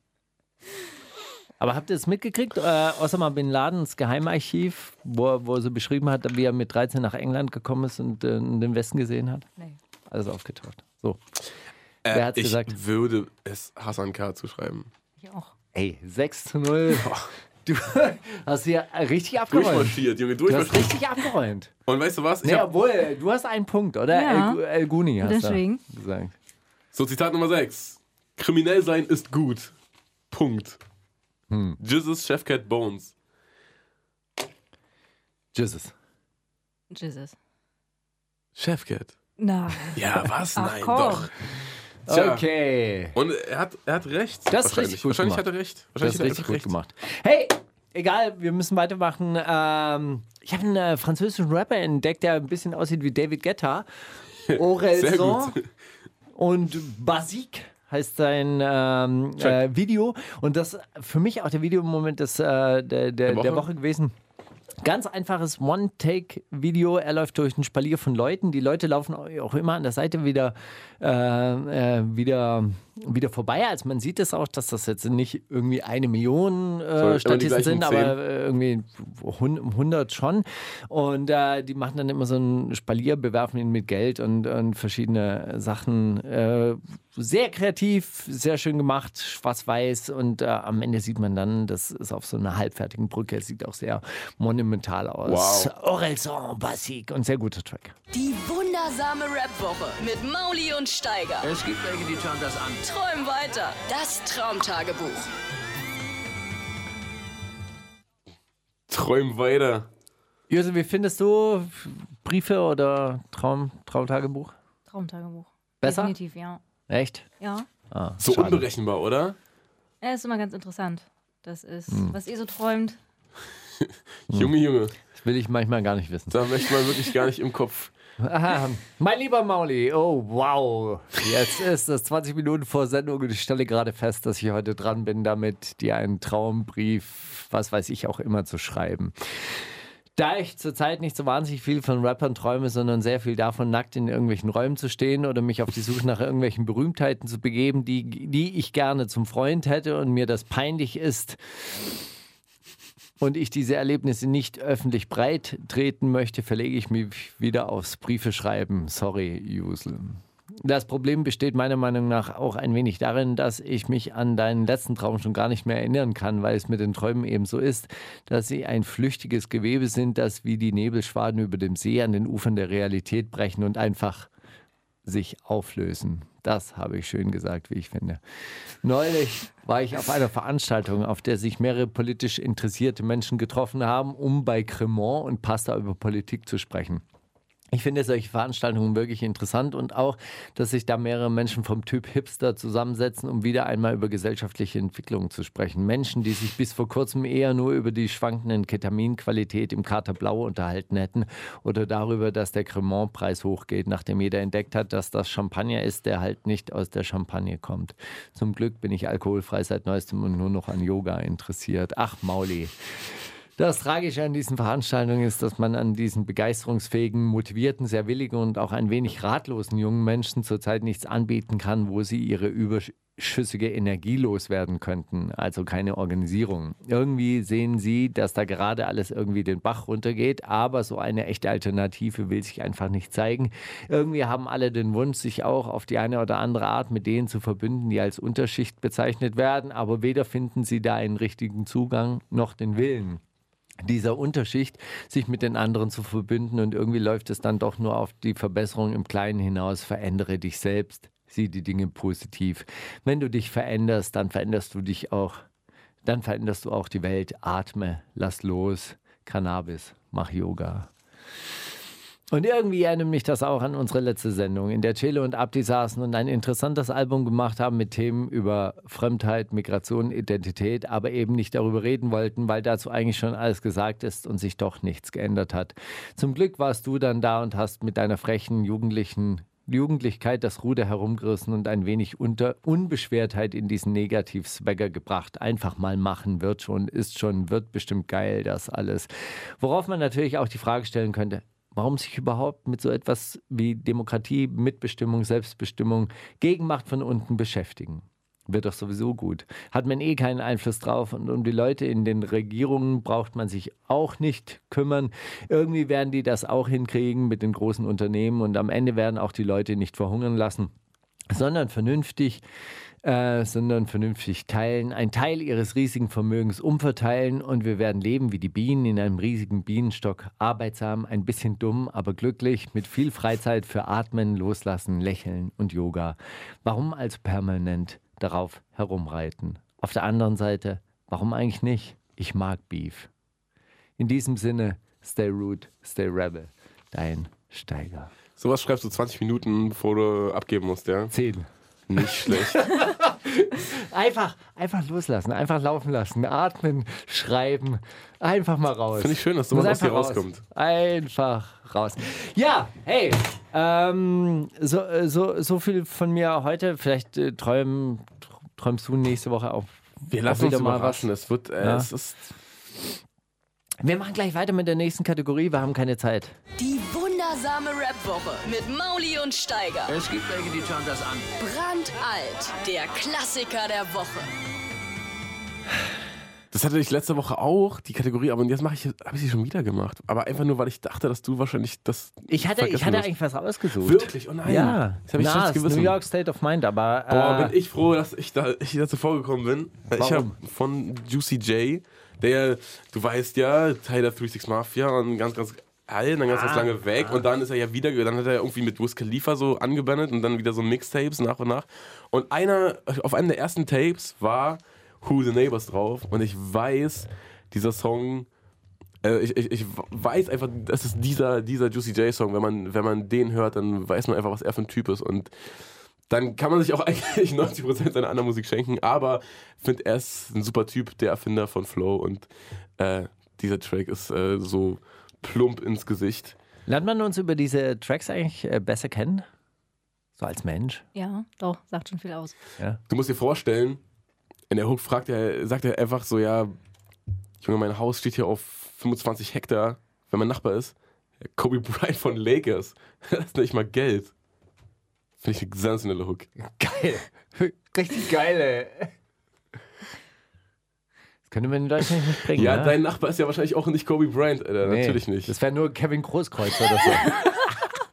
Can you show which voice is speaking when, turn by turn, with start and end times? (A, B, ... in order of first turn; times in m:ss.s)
0:01.6-0:09.4 A
0:10.1-0:11.2 A
0:12.0-0:14.9 B
0:12.1-0:12.8 A
0:15.2-0:15.5 C
0:15.7-0:21.7 A
0:16.9-0:17.3 B
0:19.5-0:21.0 B
0:21.8-0:22.7 B
0:22.4-0:26.3 A
0:24.1-0:24.6 C
0:25.2-0:25.8 C
0:26.9-0:29.7 B
0:30.3-0:30.8 B
0:31.5-0:31.8 A
0:31.8-0:33.1 B
0:35.5-0:35.9 A
0:36.9-0:37.3 C
0:38.6-0:39.2 B
0:39.4-0:41.3 C
0:39.9-0:41.3 B
0:42.1-0:42.4 B
0:42.1-0:43.2 A
0:43.1-0:46.7 B
0:44.5-0:45.4 A
0:46.0-0:53.8 A
0:54.5-0:55.7 B
0:54.5-0:55.6 A
0:56.3-1:04.1 A
1:03.3-1:03.7 B
1:04.8-1:37.9 A
1:17.0-1:18.2 B
1:35.2-1:35.7 B
1:38.1-1:41.5 D
1:41.4-1:42.8 E
1:42.8-1:45.3 D
1:48.9-1:49.9 B
1:50.5-1:54.5 A
1:54.9-1:56.6 C
1:55.8-1:56.1 A
1:56.9-1:57.2 A
1:57.4-1:57.7 C
1:57.9-1:58.6 A
1:58.2-1:59.4 B
2:00.0-2:03.0 C
2:03.8-2:04.9 B
2:05.1-2:06.4 A
2:06.3-2:07.9 B
2:08.2-2:19.1 A
2:20.2-2:31.4 A
2:33.2-2:54.3 A
2:55.0-2:58.2 A
2:58.8-3:07.0 A
3:07.7-3:32.7 A
3:33.6-4:03.2 A
4:03.8-4:15.4 A
4:16.0-4:20.9 A
4:22.3-5:10.7 A
5:11.3-5:12.4 A
5:13.0-5:33.1 A
5:34.0-5:38.1 A
5:38.4-5:41.1 B
5:41.1-5:41.5 A
5:41.9-5:42.6 B
5:42.0-6:01.1 A
5:49.0-5:50.4 B
6:00.1-6:02.2 B
6:01.6-6:01.9 A
6:03.8-6:06.3 A
6:06.6-6:10.0 D
6:09.9-6:11.3 E
6:11.3-6:14.3 D
6:16.5-6:23.1 B
6:22.3-6:27.6 A
6:23.8-6:26.0 B
6:27.1-6:48.3 B
6:30.0-6:30.4 A
6:36.3-6:37.2 A
6:49.0-6:55.3 B
6:56.1-7:06.4 B
7:06.7-7:09.2 A
7:10.2-7:10.8 A
7:10.9-7:12.4 C
7:12.9-7:13.8 B
7:14.5-7:16.6 B
7:17.4-7:24.1 B
7:25.2-7:26.3 B
7:26.4-7:28.9 A
7:31.3-7:32.8 A
7:32.3-7:35.3 B
7:34.6-7:37.1 A